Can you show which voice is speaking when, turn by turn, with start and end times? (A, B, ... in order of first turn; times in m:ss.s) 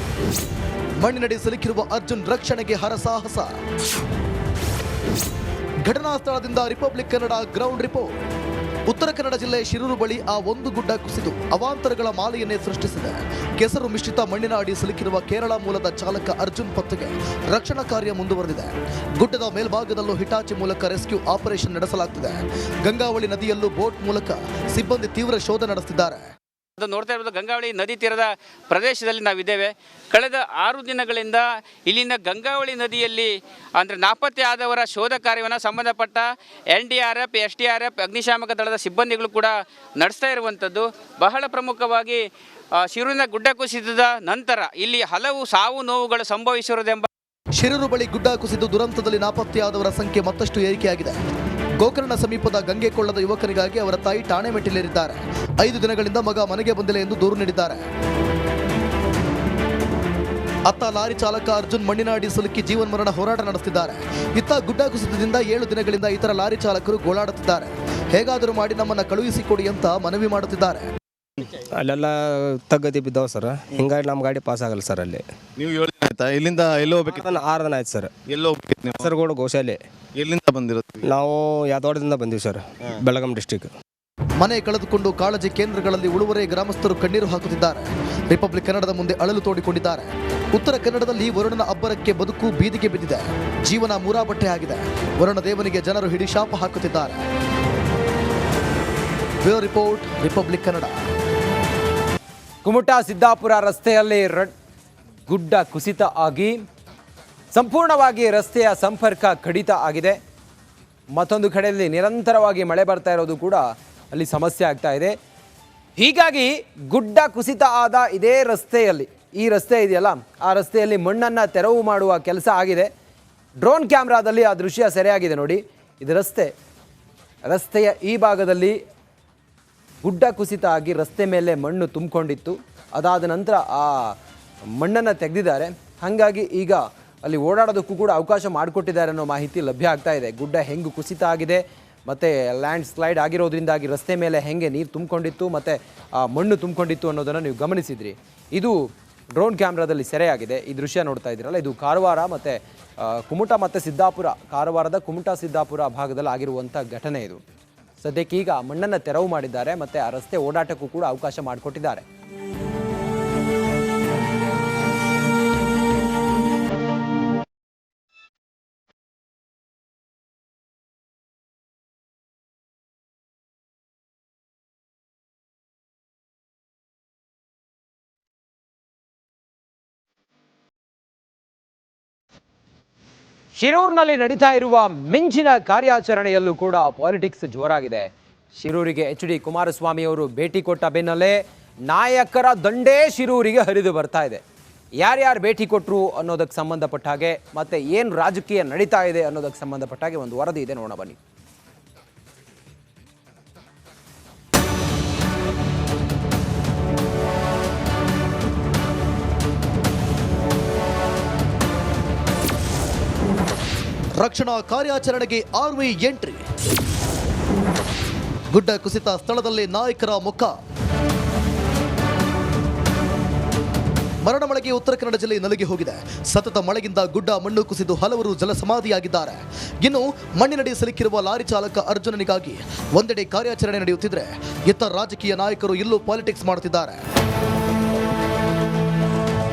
0:01.0-0:03.5 A
0:05.8-0:08.1 A
0:08.9-0:26.2 A
0:26.8-0:42.2 B
0:42.8-0:47.1 B
0:47.6-0:51.2 A
0:51.8-0:57.8 A
1:00.7-1:10.9 A
1:11.8-1:12.2 C
1:12.7-1:15.2 C
1:15.6-1:17.4 D
1:17.2-1:18.1 C
1:18.3-1:19.2 D
1:19.0-1:19.8 C
1:20.2-1:21.1 D
1:21.1-1:23.7 C
1:24.4-1:37.2 A
1:39.4-1:40.9 A
1:42.6-1:44.5 E
1:45.3-1:46.6 E
1:47.5-1:50.2 E
1:51.2-1:55.2 E
1:56.0-2:02.9 E
2:03.6-2:06.5 E
2:07.5-2:08.8 E
2:10.0-2:14.1 E
2:14.8-2:28.8 E
2:29.4-2:37.4 E
2:38.0-2:42.0 E
3:03.6-3:14.4 E
3:15.0-3:21.2 E
3:34.2-3:36.4 A
3:38.5-3:40.5 A
3:44.2-3:57.0 A